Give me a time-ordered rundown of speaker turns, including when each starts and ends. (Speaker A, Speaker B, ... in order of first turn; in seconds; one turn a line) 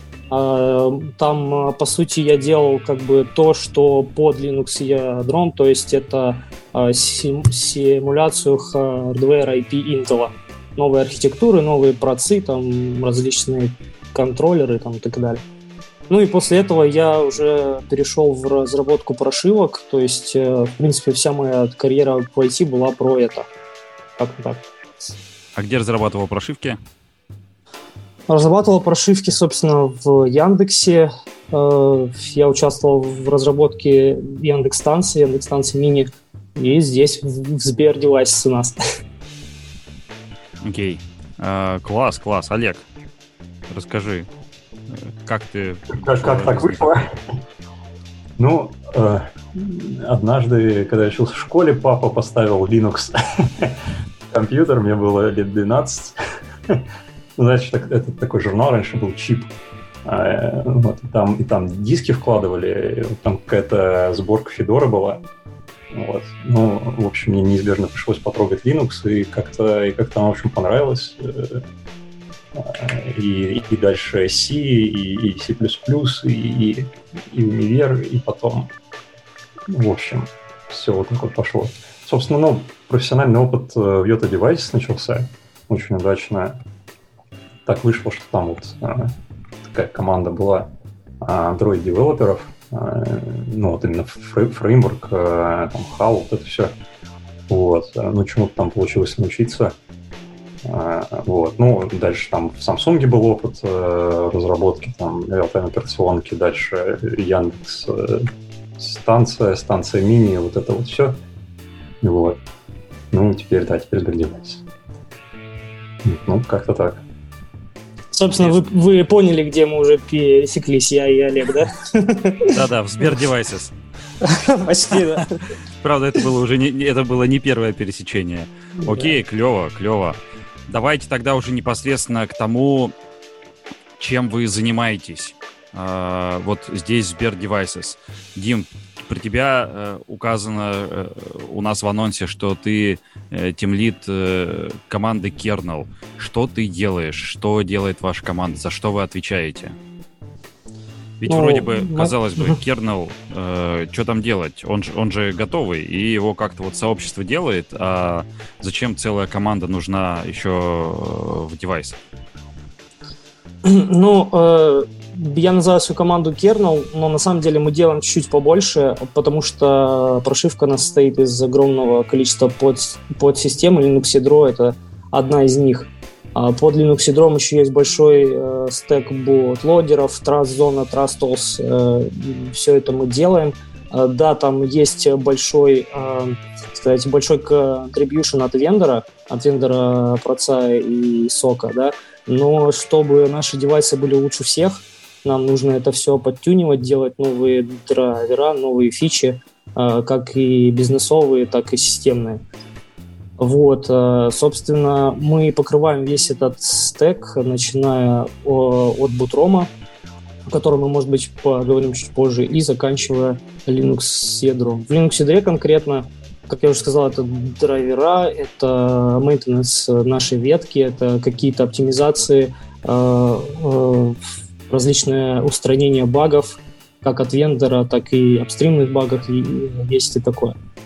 Speaker A: 0.3-15.4
Speaker A: 16.1-23.5
Speaker A: 24.2-24.6
Speaker B: 25.5-26.8
Speaker A: 28.3-38.8
Speaker B: 40.6-42.9
Speaker B: 43.7-44.3
Speaker B: 44.9-47.1
Speaker C: 45.9-47.1
Speaker C: 48.4-53.8
Speaker C: 54.3-56.1
Speaker C: 57.4-59.5
Speaker C: 60.0-65.2
Speaker C: 65.9-71.6
Speaker C: 72.5-78.7
Speaker C: 79.7-86.6
Speaker C: 87.7-89.1
Speaker C: 89.7-90.7
Speaker C: 91.2-96.7
Speaker C: 97.5-99.7
Speaker C: 100.6-111.2
Speaker C: 112.0-112.4
Speaker C: 113.1-114.6
Speaker C: 116.0-117.0
Speaker A: 118.1-122.6
Speaker B: 118.4-118.7
Speaker B: 122.4-123.7
Speaker A: 124.2-125.4
Speaker B: 125.8-132.9
Speaker A: 128.8-129.1
Speaker B: 134.0-149.8
Speaker B: 151.2-162.0
Speaker A: 151.3-152.6
Speaker A: 163.6-202.4
Speaker A: 203.4-209.7
Speaker A: 210.5-230.5